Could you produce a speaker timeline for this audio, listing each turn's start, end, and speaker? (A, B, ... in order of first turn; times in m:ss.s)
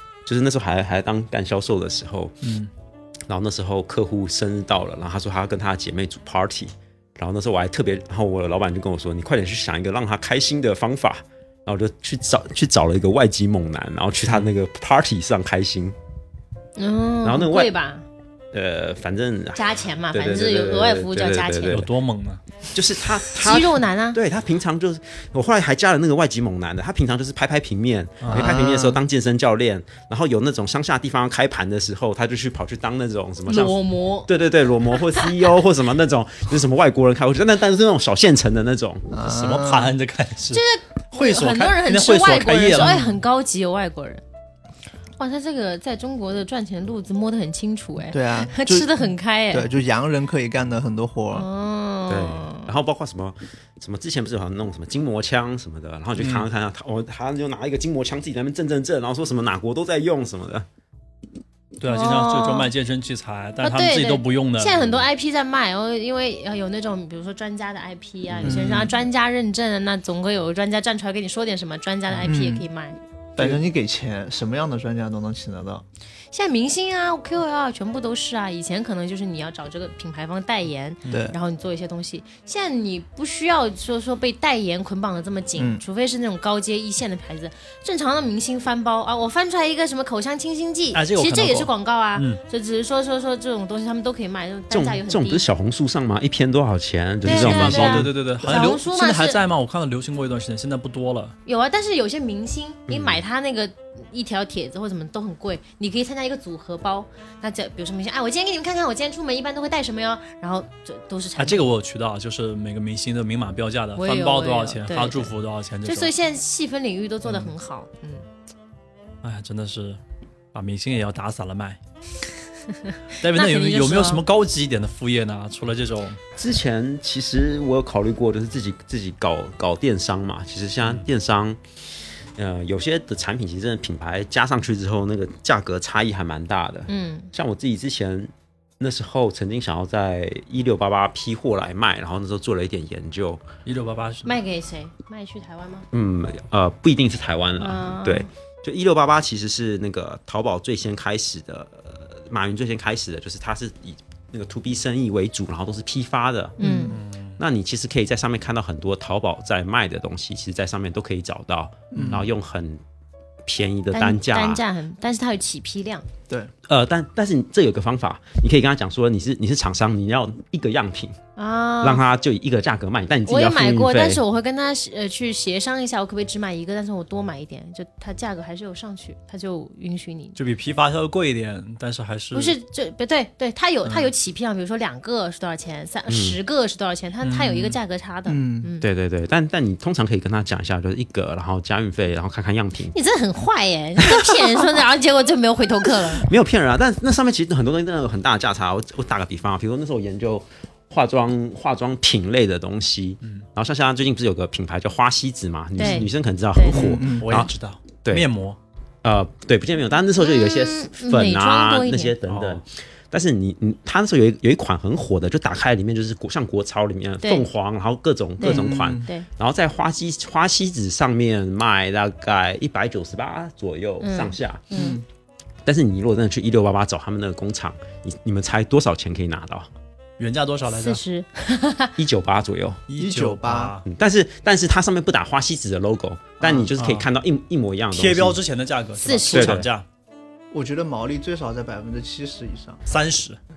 0:00.2-0:02.4 A
0:02.4-0:02.7 B
0:03.3-0:15.9 A
0:16.8-0:18.0 C
0:17.2-0:17.7 A
0:18.5-0:21.9 A
0:19.5-0:21.8 C
0:21.7-0:22.4 B
0:22.7-0:39.1 A
0:23.3-0:24.2 C
0:28.2-0:28.5 B
0:28.3-0:29.0 D
0:33.5-0:34.3 C
0:39.1-0:39.9 D
0:39.2-0:43.1 B
0:40.5-0:44.2 C
0:45.2-0:49.7 C
0:48.1-0:49.0 D
0:49.5-0:51.5 D
0:51.3-0:52.7 C
0:52.1-1:00.6 A
0:56.2-0:56.5 B
1:01.8-1:04.8 B
1:01.9-1:02.7 C
1:03.6-1:13.0 C
1:08.4-1:08.9 D
1:12.2-1:12.6 D
1:13.4-1:15.8 D
1:16.3-1:35.4 C
1:21.0-1:21.3 B
1:21.1-1:21.3 D
1:25.6-1:25.8 D
1:30.9-1:32.4 B
1:34.7-1:38.1 A
1:37.2-1:39.4 C
1:37.2-1:41.3 B
1:41.4-1:51.7 C
1:42.9-1:43.2 A
1:51.4-1:56.1 B
1:54.0-1:55.3 C
1:55.8-1:58.2 C
1:57.2-1:57.5 B
1:59.2-2:00.0 B
2:00.5-2:01.8 B
2:02.8-2:04.2 C
2:03.2-2:06.2 B
2:06.4-2:11.6 A
2:10.8-2:11.0 B
2:12.4-2:23.4 A
2:16.9-2:17.3 C
2:23.6-2:24.3 B
2:24.2-2:25.8 C
2:25.9-2:36.6 A
2:27.6-2:28.3 C
2:36.6-2:37.0 C
2:36.6-2:37.0 D
2:36.9-2:37.4 B
2:37.4-2:42.8 A
2:41.9-2:42.3 D
2:43.4-2:44.6 A
2:43.9-2:46.1 C
2:46.7-2:51.2 A
2:51.4-2:52.0 C
2:51.8-2:54.2 A
2:53.3-3:00.4 C
3:00.3-3:02.5 B
3:02.3-3:08.8 C
3:06.1-3:06.4 A
3:07.2-3:07.8 B
3:08.3-3:08.7 D
3:08.8-3:13.0 A
3:12.9-3:16.3 C
3:14.1-3:14.4 A
3:16.1-3:27.5 A
3:25.8-3:26.9 C
3:26.7-3:27.3 D
3:27.1-3:28.6 B
3:29.0-3:44.6 A
3:30.2-3:32.1 C
3:32.2-3:32.6 B
3:37.2-3:37.5 C
3:38.4-3:39.3 C
3:38.4-3:39.0 D
3:44.0-3:45.0 C
3:44.7-3:45.0 D
3:45.6-3:49.7 A
3:50.2-3:51.0 B
3:50.7-3:51.9 C
3:52.0-3:52.8 A
3:52.9-3:53.8 B
3:53.0-3:53.8 D
3:53.8-3:58.4 A
3:56.4-3:56.7 D
3:56.8-3:57.1 B
3:57.9-3:59.8 B
3:59.0-3:59.6 C
3:59.3-3:59.7 A
4:00.5-4:02.8 D
4:02.9-4:03.4 B